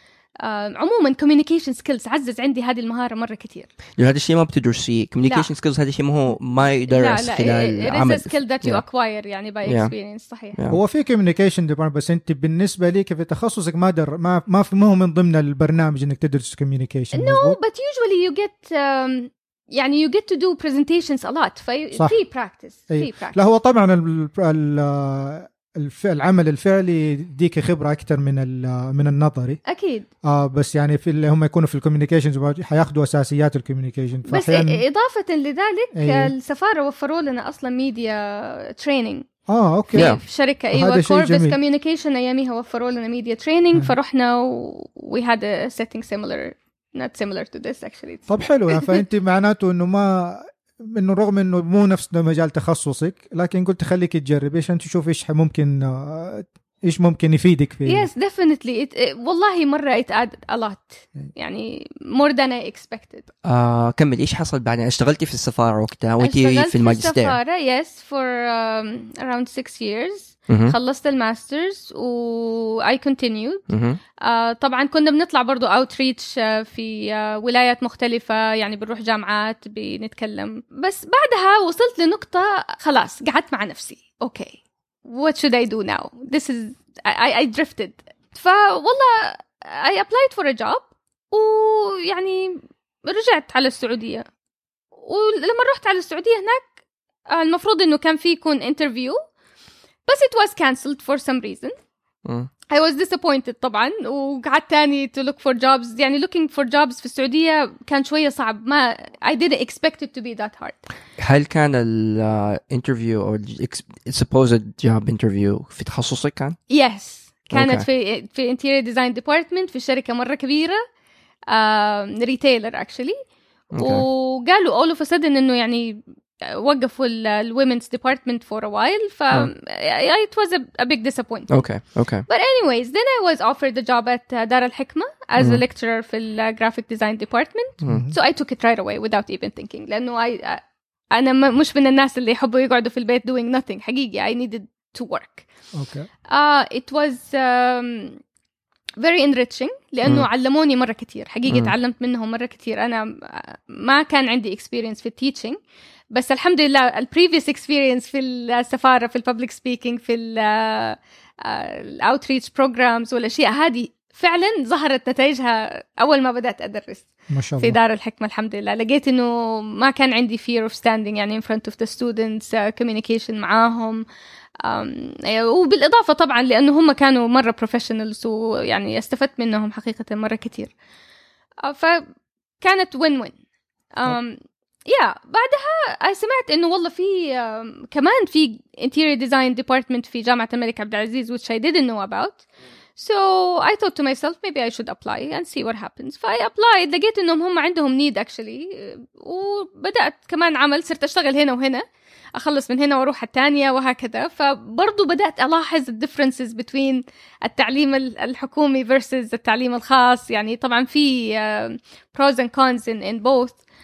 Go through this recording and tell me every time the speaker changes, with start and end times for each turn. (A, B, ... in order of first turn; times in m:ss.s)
0:00.4-0:03.7 A
0:04.0-0:08.8 B
0:06.9-0:10.6 A
0:09.6-0:09.9 B
0:10.7-0:17.6 C
0:17.1-0:23.4 A
0:22.9-0:29.6 C
0:29.6-0:30.1 A
0:30.2-0:34.8 C
0:34.3-0:39.2 A
0:35.9-0:36.3 C
0:39.5-0:40.1 C
0:39.9-0:49.0 A
0:40.0-0:40.2 B
0:40.7-0:41.6 C
0:48.3-0:58.1 C
0:57.9-1:03.3 A
1:03.4-1:07.4 B
1:06.2-1:13.6 A
1:10.5-1:10.8 B
1:13.7-1:14.0 B
1:14.2-1:34.2 A
1:35.0-1:36.7 A
1:37.3-1:39.2 A
1:40.1-1:41.8 A
1:42.7-1:50.8 A
1:51.2-1:56.6 B
1:56.7-2:00.8 A
1:57.5-1:57.9 B
2:01.5-2:03.2 A
2:03.7-2:04.0 B
2:03.8-2:11.6 A
2:11.5-2:12.2 B
2:12.3-2:25.5 A
2:17.9-2:18.2 C
2:25.7-2:26.1 C
2:26.3-2:28.2 A
2:29.0-2:35.6 A
2:31.5-2:31.7 B
2:36.1-2:54.0 A
2:47.3-2:47.8 C
2:54.6-3:00.7 A
3:01.6-3:02.1 A
3:02.6-3:03.4 A
3:04.0-3:12.4 A
3:13.0-3:21.8 A
3:22.4-3:33.6 A